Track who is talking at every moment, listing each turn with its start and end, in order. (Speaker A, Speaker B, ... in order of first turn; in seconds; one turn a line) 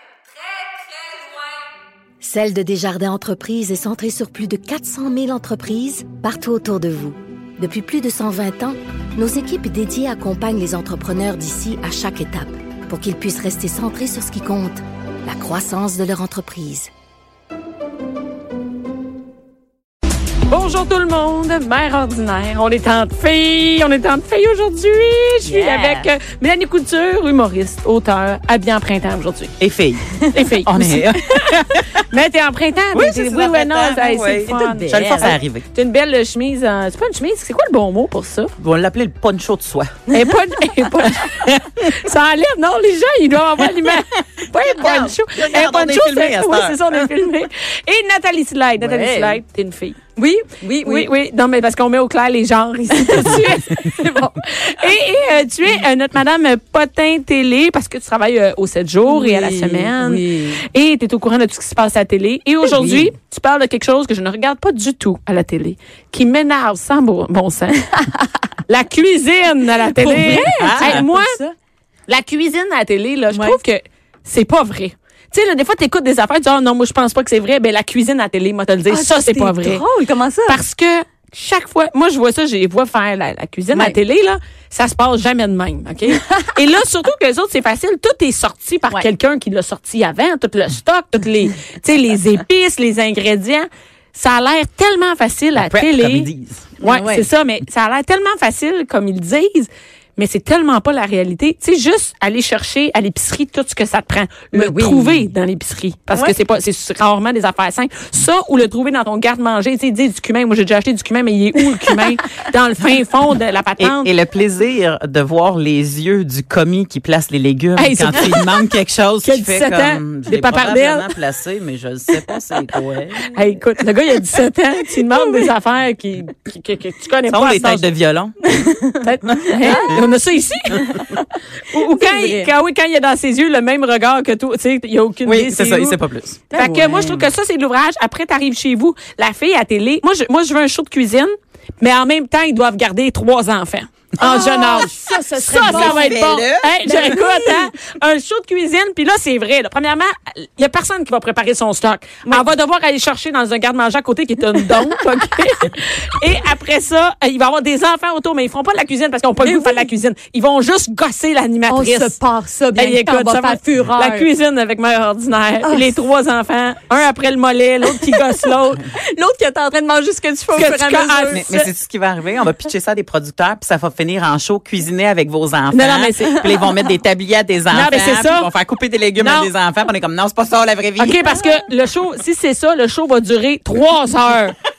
Speaker A: 2.2-16.9
Speaker B: 20.5-29.5
Speaker C: 25.4-26.1
Speaker D: 29.6-32.0
Speaker B: 30.3-38.5
Speaker D: 32.9-35.6
Speaker C: 34.4-35.4
Speaker D: 38.6-40.1
Speaker B: 40.1-50.0
Speaker D: 41.3-41.9
Speaker D: 44.5-47.1
Speaker C: 48.8-49.4
Speaker C: 50.1-51.1
Speaker B: 50.8-67.9
Speaker C: 53.0-54.4
Speaker C: 59.0-60.6
Speaker C: 62.6-63.1
Speaker B: 68.7-71.4
Speaker C: 70.0-71.5
Speaker D: 70.2-71.0
Speaker B: 72.1-79.8
Speaker C: 73.3-73.6
Speaker C: 78.9-80.6
Speaker B: 80.5-96.3
Speaker C: 86.2-86.5
Speaker D: 95.5-96.8
Speaker B: 96.8-114.1
Speaker C: 96.8-97.2
Speaker C: 104.5-105.2
Speaker D: 113.8-123.3
Speaker B: 117.8-118.5
Speaker B: 119.2-121.1
Speaker B: 123.3-127.9
Speaker D: 127.3-128.6
Speaker C: 128.4-130.1
Speaker B: 129.0-136.0
Speaker D: 129.3-130.0
Speaker C: 130.8-131.1
Speaker C: 131.7-132.5
Speaker D: 135.2-136.5
Speaker C: 136.5-137.2
Speaker B: 136.5-162.2
Speaker C: 144.2-146.2
Speaker D: 144.2-144.9
Speaker D: 145.6-146.7
Speaker C: 146.8-147.7
Speaker C: 159.4-159.8
Speaker C: 161.7-164.3
Speaker B: 162.8-168.8
Speaker C: 165.6-165.9
Speaker C: 167.9-171.4
Speaker B: 170.5-171.7
Speaker D: 171.3-181.4
Speaker B: 175.7-176.6
Speaker B: 177.7-178.5
Speaker B: 179.2-179.5
Speaker B: 181.0-184.6